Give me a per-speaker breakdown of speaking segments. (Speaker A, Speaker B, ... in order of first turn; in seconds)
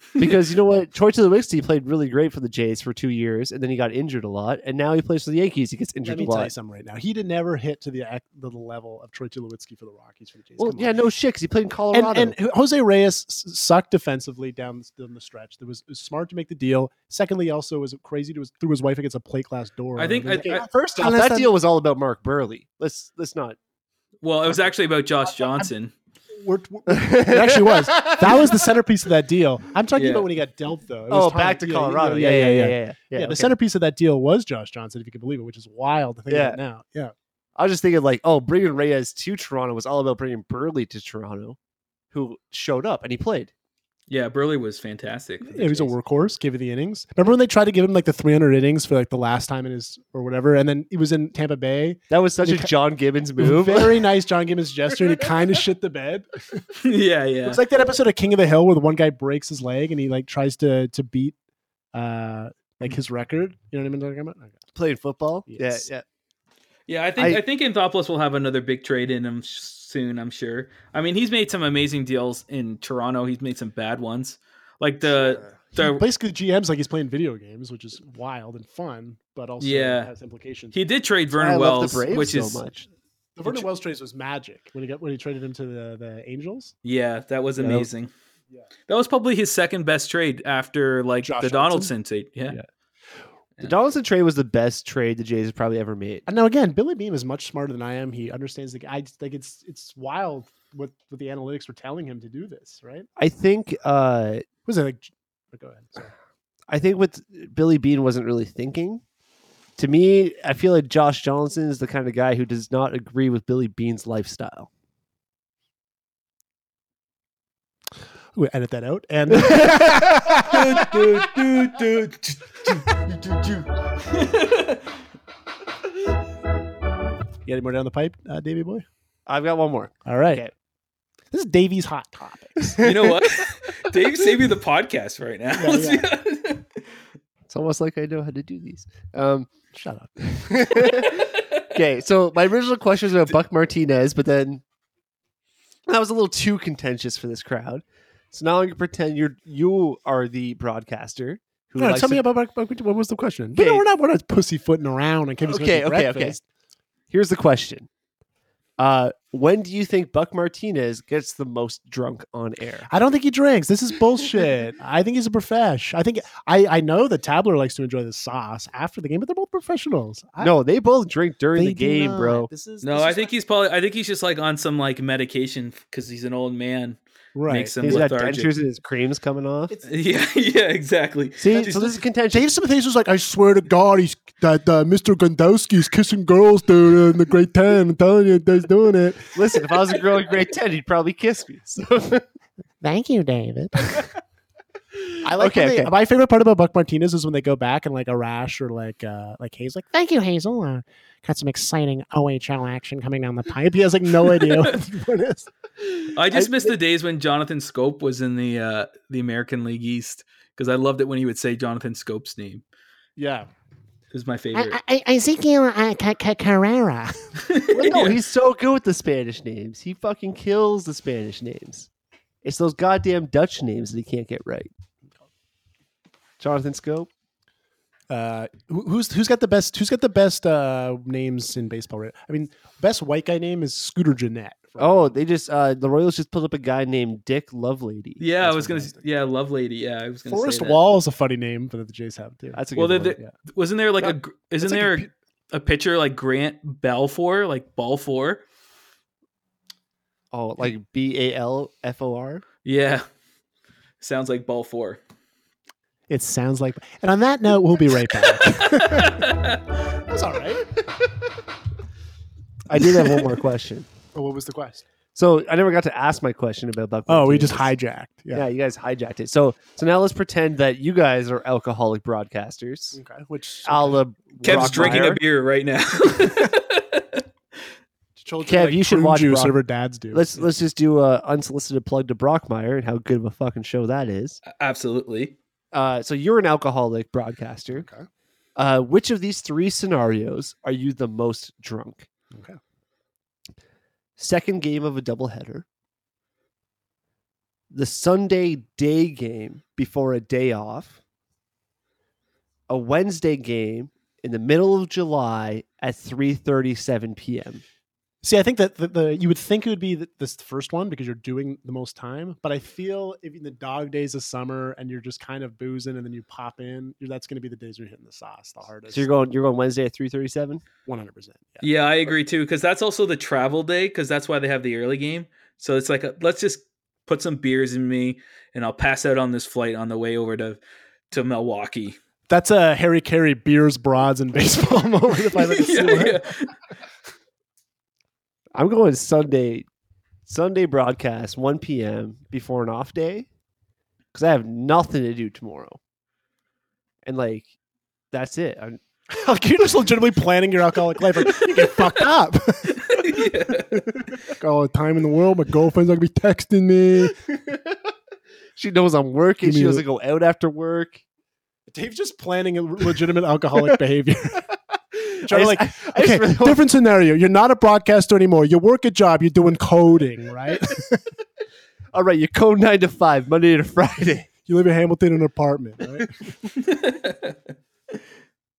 Speaker A: 0.2-6.5, 10.6-12.4, 20.4-23.6, 26.9-28.6, 31.1-33.6, 36.3-36.6, 37.6-41.6, 42.1-43.5, 45.5-45.9, 52.1-54.0, 64.8-66.0, 67.2-67.4, 81.3-82.9, 87.6-87.9, 93.6-96.3, 103.2-104.5, 106.7-109.0, 109.8-114.7, 119.3-120.0, 129.3-130.5, 137.5-139.5, 140.3-144.6, 145.9-152.2, 153.6-153.9, 155.4-156.4, 157.1-157.9, 158.8-162.9, 170.4-172.5, 177.8-179.7, 181.4-182.5, 189.3-192.3, 195.4-195.9, 206.3-206.7, 217.7-221.9, 222.4-224.7, 226.4-227.1, 234.8-238.9, 242.5-243.2, 250.3-252.4, 262.7-263.9, 265.1-267.7, 268.3-273.0, 273.6-275.2, 278.4-279.6, 280.1-284.4, 285.7-287.9, 288.6-292.1, 294.2-295.6, 297.7-301.0, 302.7-307.6, 318.9-320.6, 338.6-339.7, 340.3-343.3, 344.1-345.8, 347.0-347.5, 348.1-348.8, 357.5-357.8, 358.6-361.0, 365.2-366.6, 371.9-374.3
Speaker B: 6.0-10.9, 11.9-21.5, 26.4-37.1, 45.4-52.7, 53.4-56.7, 57.5-61.4, 61.9-64.6, 65.5-65.9, 75.1-80.7, 83.4-86.7, 91.2-91.9, 96.3-103.1, 104.7-106.1, 118.3-121.0, 127.5-128.8, 130.1-130.4, 131.3-132.9, 135.6-136.1, 139.7-141.0, 151.8-156.4, 162.9-170.5, 171.6-173.3, 177.4-178.1, 181.5-189.3, 192.8-194.1, 195.2-205.5, 213.2-213.5, 214.5-217.3, 228.1-235.2, 240.3-243.3, 244.6-245.1, 256.1-259.3, 260.1-260.7, 264.1-264.8, 267.1-268.4, 272.9-275.1, 278.2-280.5, 287.8-288.1, 292.3-292.6, 308.2-319.1, 320.9-321.7, 332.3-336.3, 349.1-357.2, 359.4-359.8, 361.7-364.4, 365.2-371.0, 374.5-376.1
Speaker C: 20.0-20.7, 24.2-25.9, 29.9-30.3, 44.1-45.8, 56.8-57.6, 66.9-76.0, 79.6-80.1, 80.7-82.6, 86.8-88.1, 88.9-92.6, 120.4-124.8, 132.8-136.7, 172.8-178.5, 179.9-181.4, 206.2-212.6, 214.1-214.8, 217.5-218.2, 238.2-240.8, 242.8-248.4, 252.7-253.1, 254.0-255.0, 258.5-259.6, 274.4-277.2, 284.5-285.4, 321.6-330.6, 331.1-332.0, 335.3-336.5, 352.9-353.8, 376.8-377.3